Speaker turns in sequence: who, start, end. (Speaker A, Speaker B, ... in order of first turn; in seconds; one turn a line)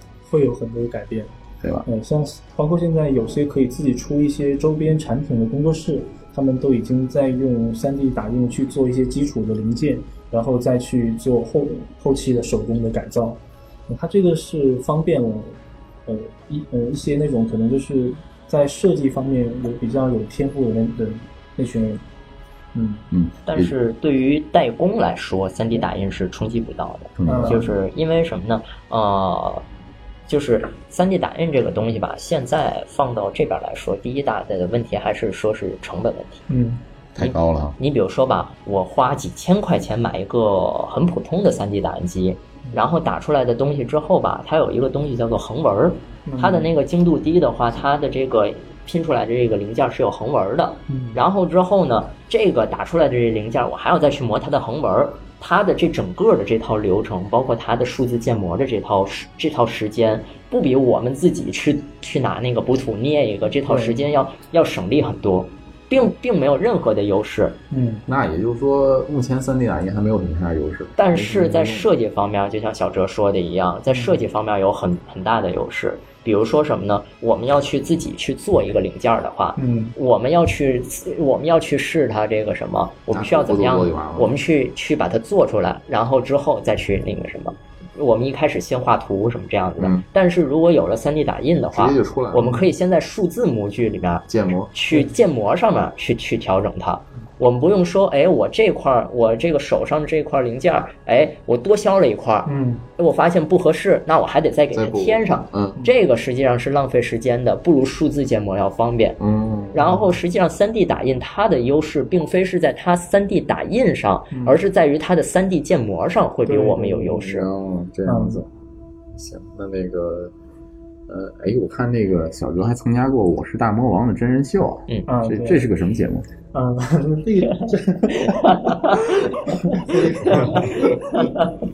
Speaker A: 0.3-1.3
Speaker B: 1.6-1.9
Speaker A: 1.9-22.0
Speaker A: 22.7-23.0
Speaker B: 23.1-23.7
Speaker C: 23.5-29.6
Speaker B: 27.2-27.7
Speaker A: 27.2-27.7
Speaker C: 30.3-36.4
Speaker A: 36.5-36.8
Speaker B: 37.1-37.8
Speaker C: 37.2-67.6
Speaker A: 46.3-46.7
Speaker A: 50.9-51.2
Speaker A: 63.6-64.1
Speaker A: 67.7-68.0
Speaker B: 68.1-71.9
Speaker C: 71.0-109.2
Speaker A: 73.9-74.2
Speaker A: 79.6-79.9
Speaker B: 83.1-84.3
Speaker B: 89.8-90.0
Speaker B: 91.7-92.6
Speaker B: 94.3-94.7
Speaker A: 102.5-102.8
Speaker B: 104.7-105.8
Speaker B: 109.2-109.9
Speaker C: 109.7-117.5
Speaker A: 109.8-110.1
Speaker A: 114.3-114.6
Speaker A: 116.4-117.2
Speaker B: 117.1-118.5
Speaker A: 118.0-118.4
Speaker B: 119.1-120.3
Speaker B: 121.1-126.3
Speaker A: 125.1-125.6
Speaker A: 126.5-131.5
Speaker C: 128.4-129.1
Speaker B: 130.0-130.9